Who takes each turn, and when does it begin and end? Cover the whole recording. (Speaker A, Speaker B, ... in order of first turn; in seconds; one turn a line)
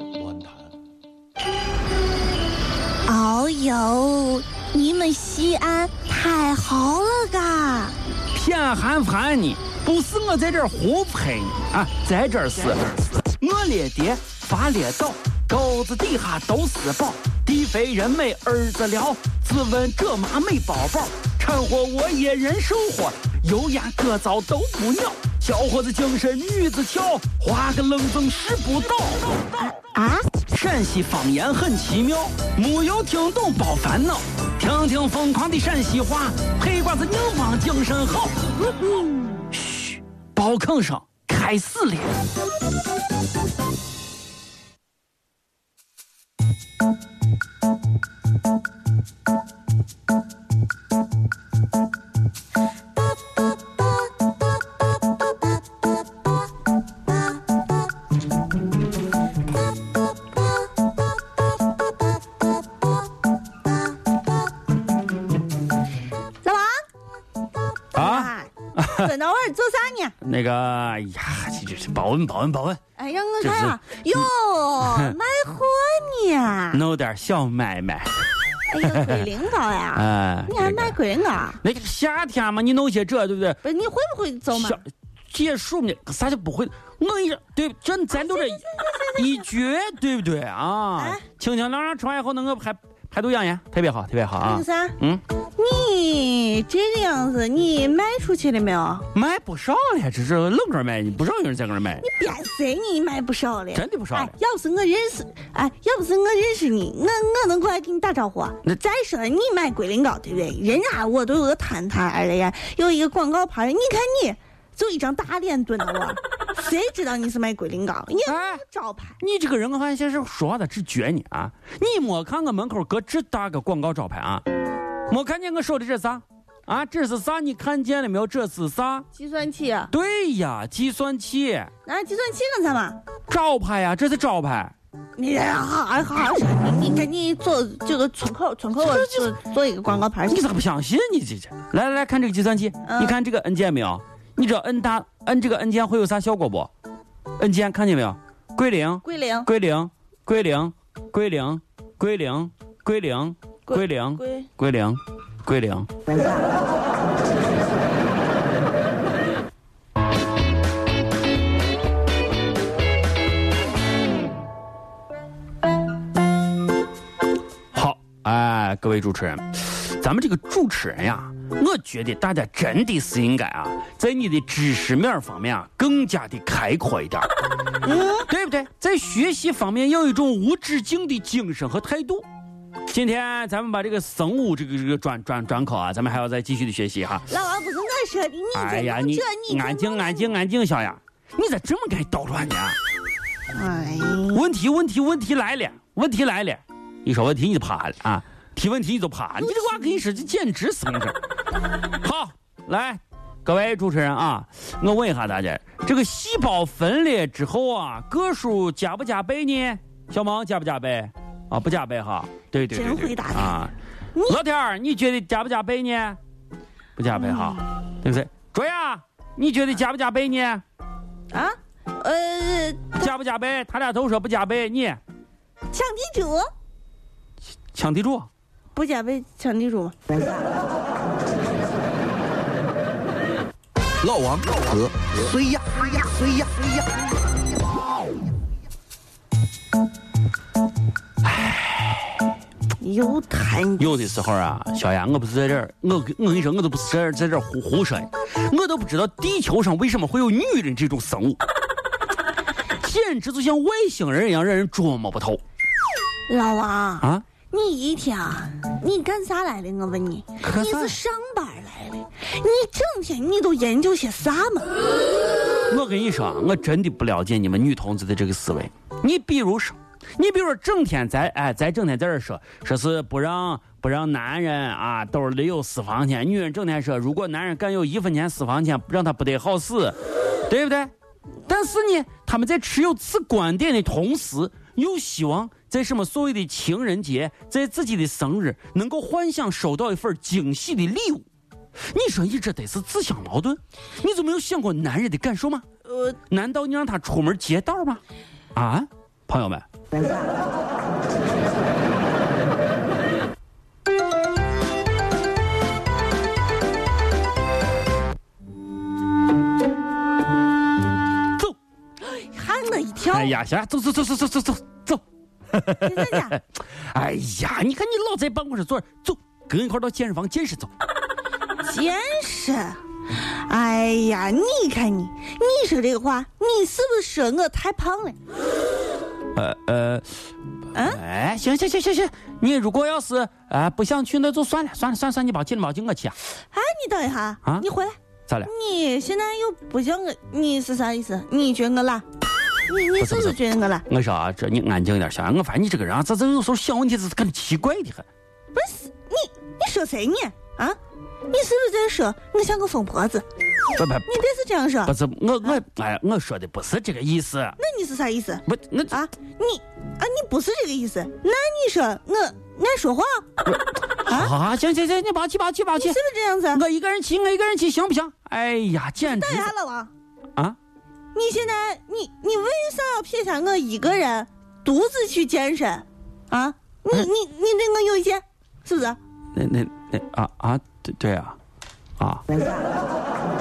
Speaker A: 3.0-8.0
Speaker B: 8.3-29.4
Speaker A: 29.8-30.3
Speaker B: 30.5-38.5
Speaker B: 39.5-42.2
Speaker A: 66.4-66.8
Speaker B: 68.0-69.1
Speaker A: 68.0-70.2
Speaker B: 70.2-72.8
Speaker A: 73.0-76.8
Speaker B: 73.4-73.8
Speaker B: 74.8-75.1
Speaker B: 76.7-78.1
Speaker A: 78.7-81.6
Speaker B: 78.8-79.3
Speaker B: 79.9-81.0
Speaker B: 81.6-83.6
Speaker A: 83.6-84.8
Speaker B: 84.5-95.2
Speaker A: 88.1-89.5
Speaker A: 91.0-91.2
Speaker A: 94.4-95.0
Speaker A: 95.6-99.1
Speaker B: 99.1-102.1
Speaker A: 102.0-119.2
Speaker B: 103.8-104.3
Speaker B: 118.3-118.6
Speaker B: 119.2-124.4
Speaker B: 125.1-129.1
Speaker A: 129.1-129.9
Speaker B: 129.9-131.7
Speaker A: 131.9-133.0
Speaker B: 133.3-134.7
Speaker A: 135.2-140.5
Speaker B: 138.8-139.3
Speaker B: 140.3-146.7
Speaker A: 142.8-143.2
Speaker B: 147.4-155.9
Speaker A: 149.0-149.5
Speaker A: 153.7-154.5
Speaker B: 167.7-177.3
Speaker A: 177.8-178.3
Speaker B: 178.3-182.2
Speaker B: 182.9-187.3
Speaker A: 187.3-190.3
Speaker B: 188.5-192.8
Speaker A: 193.5-194.5
Speaker B: 194.3-201.2
Speaker A: 199.5-199.8
Speaker B: 202.0-213.7
Speaker A: 212.7-214.4
Speaker B: 214.3-216.2
Speaker B: 217.0-220.6
Speaker A: 217.2-217.6
Speaker A: 221.3-223.1
Speaker B: 223.0-225.0
Speaker A: 225.7-226.5
Speaker B: 227.7-228.3
Speaker A: 228.7-230.1
Speaker C: 234.0-236.7
Speaker B: 241.2-242.0
Speaker A: 242.8-244.0
Speaker B: 243.8-251.4
Speaker B: 252.8-255.4
Speaker A: 256.3-264.7
Speaker B: 260.4-261.0
Speaker B: 265.7-280.0
Speaker B: 280.5-280.9
Speaker B: 281.4-291.2
Speaker B: 291.9-298.0
Speaker B: 298.5-299.6
Speaker A: 312.0-313.3
Speaker B: 313.0-320.7
Speaker A: 315.8-316.4
Speaker A: 321.6-328.2
Speaker B: 329.4-330.1
Speaker A: 330.7-331.0
Speaker B: 330.8-336.2
Speaker A: 336.5-342.1
Speaker A: 342.7-343.9
Speaker B: 343.0-348.1
Speaker A: 348.5-350.8
Speaker A: 351.3-353.2
Speaker B: 353.7-354.1
Speaker A: 354.1-354.9
Speaker B: 354.9-357.6
Speaker A: 357.6-363.2
Speaker B: 358.5-358.9
Speaker B: 363.4-366.0
Speaker A: 364.1-364.3
Speaker A: 365.8-366.6
Speaker B: 366.5-369.5
Speaker A: 369.0-369.9
Speaker A: 371.1-379.0
Speaker B: 379.3-381.4
Speaker B: 382.0-382.2